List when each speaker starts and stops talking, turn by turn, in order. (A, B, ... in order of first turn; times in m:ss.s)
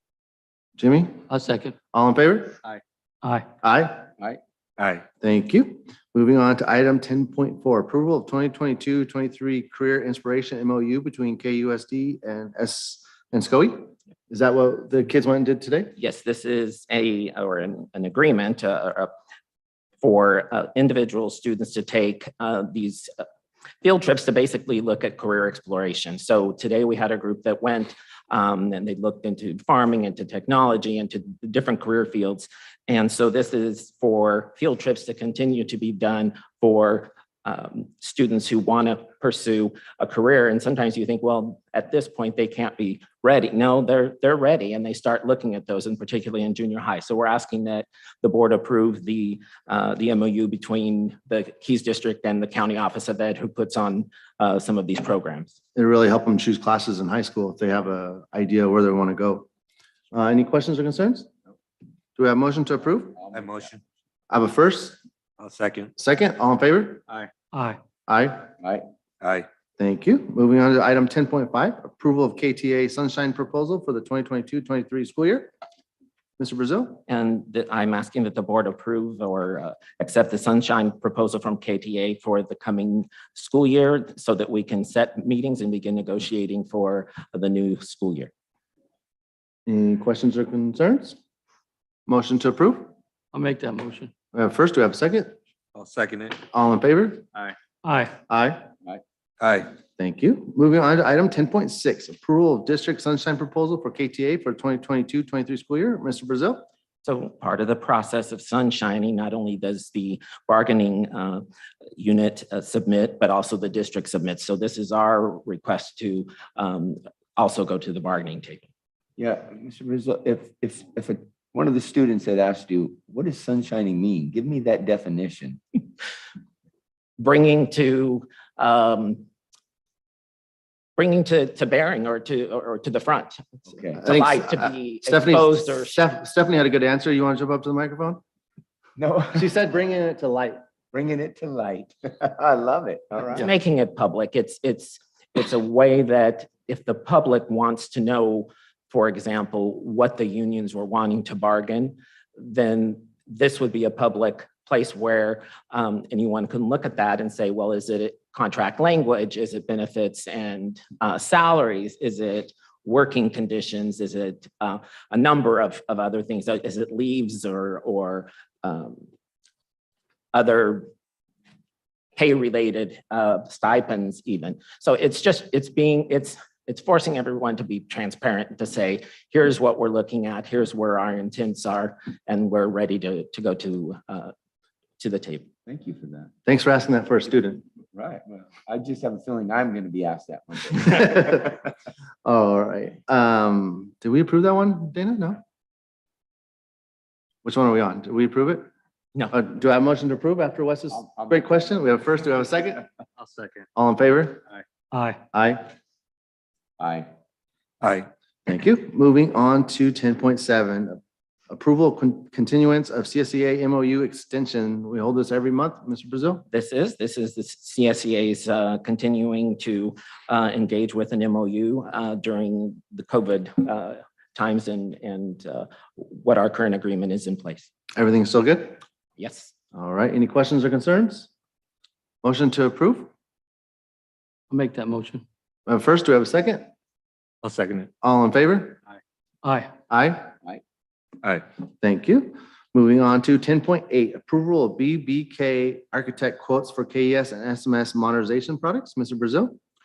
0:00.8-0:01.2 A
0:01.3-0:01.8 B
0:01.9-0:02.6 A
0:03.6-0:04.1 A
0:04.8-0:05.0 C
0:05.2-0:15.9 A
0:16.0-0:19.1 D
0:20.0-0:23.1 D
0:23.8-0:55.6 D
0:55.7-0:59.4 A
1:00.1-1:01.3 A
1:02.2-1:03.2 A
1:03.2-1:03.6 E
1:03.3-1:03.8 C
1:04.3-1:05.0 A
1:05.4-1:05.9 C
1:06.0-1:07.0 A
1:07.5-1:07.8 B
1:08.1-1:08.5 A
1:09.2-1:09.5 C
1:09.8-1:15.5 A
1:16.4-1:17.0 A
1:17.1-1:28.3 D
1:29.7-1:31.2 A
1:32.1-1:32.9 A
1:33.3-1:34.1 B
1:34.3-1:35.4 A
1:35.8-1:36.4 C
1:36.5-1:37.3 A
1:37.8-1:38.2 B
1:38.3-1:38.7 A
1:39.4-1:39.7 C
1:40.0-1:46.6 A
1:47.0-1:51.4 D
1:52.0-1:58.6 D
1:59.2-2:05.6 E
2:07.2-2:09.2 D
2:11.0-2:13.4 D
2:13.7-2:14.1 E
2:14.0-2:16.0 D
2:14.0-2:18.2 A
2:19.0-2:19.5 E
2:19.3-2:20.6 A
2:20.9-2:23.5 E
2:23.3-2:49.0 D
2:50.3-2:50.9 D
2:52.2-3:04.3 D
3:05.0-3:05.5 D
3:05.7-3:06.3 E
3:06.4-3:07.6 A
3:07.9-3:11.5 E
3:10.8-3:11.5 A
3:12.2-3:15.4 A
3:17.4-3:18.7 A
3:19.3-3:22.8 A
3:20.9-3:21.8 E
3:23.8-3:24.4 A
3:24.9-3:25.2 B
3:25.3-3:25.6 A
3:26.8-3:27.1 E
3:27.8-3:28.1 C
3:28.5-3:31.0 A
3:31.5-3:36.4 A
3:36.5-3:47.7 D
3:48.0-3:48.8 A
3:49.2-3:49.5 D
3:49.7-3:51.3 A
3:52.2-3:53.1 A
3:54.5-3:55.2 B
3:55.7-3:56.7 A
3:57.4-3:57.9 C
3:58.0-3:58.8 A
3:59.4-3:59.7 B
3:59.9-4:00.3 A
4:01.8-4:09.6 A